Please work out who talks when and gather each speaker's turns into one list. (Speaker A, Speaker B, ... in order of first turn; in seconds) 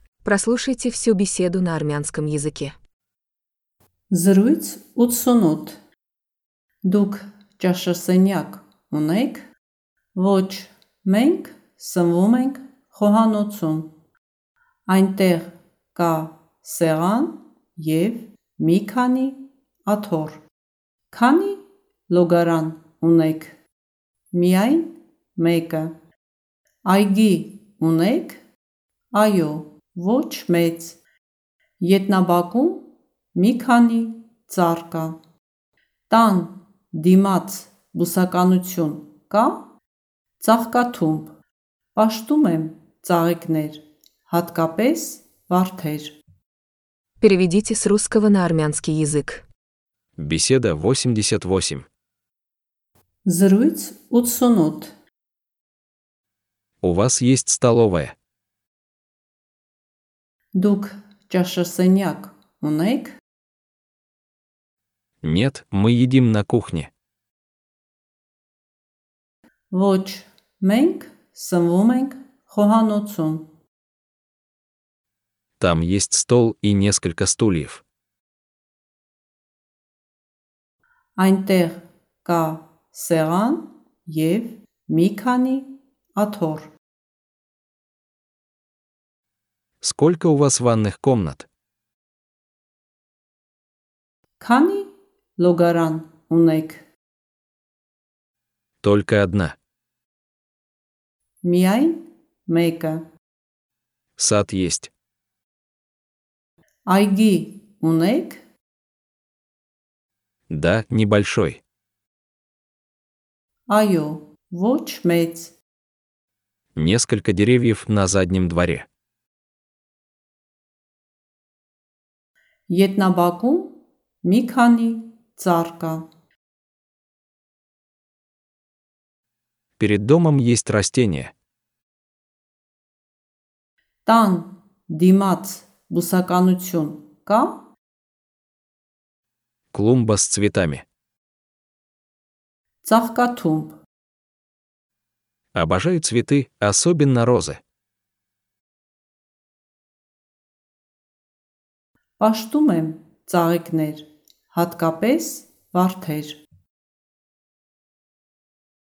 Speaker A: 0.2-2.7, 47.2-49.5
Speaker B: 4.1-5.8, 6.8-9.5, 10.2-13.9, 14.9-20.4, 21.1-23.6, 24.3-25.9, 26.9-28.4, 29.1-31.0, 31.8-35.2, 36.1-39.7, 40.4-41.3, 42.0-46.2, 53.2-54.9, 60.5-63.2, 69.7-73.5, 81.2-86.7, 94.4-96.8, 101.4-103.0, 106.9-108.4, 113.7-115.6, 122.7-126.1, 134.1-137.6, 142.8-143.8, 152.2-156.4
Speaker C: 50.2-51.9, 56.8-58.2, 65.2-66.9, 75.6-77.8, 89.8-91.5, 98.8-99.6, 104.2-104.9, 110.5-111.6, 116.8-118.9, 129.8-131.3, 139.7-140.8, 145.6-147.6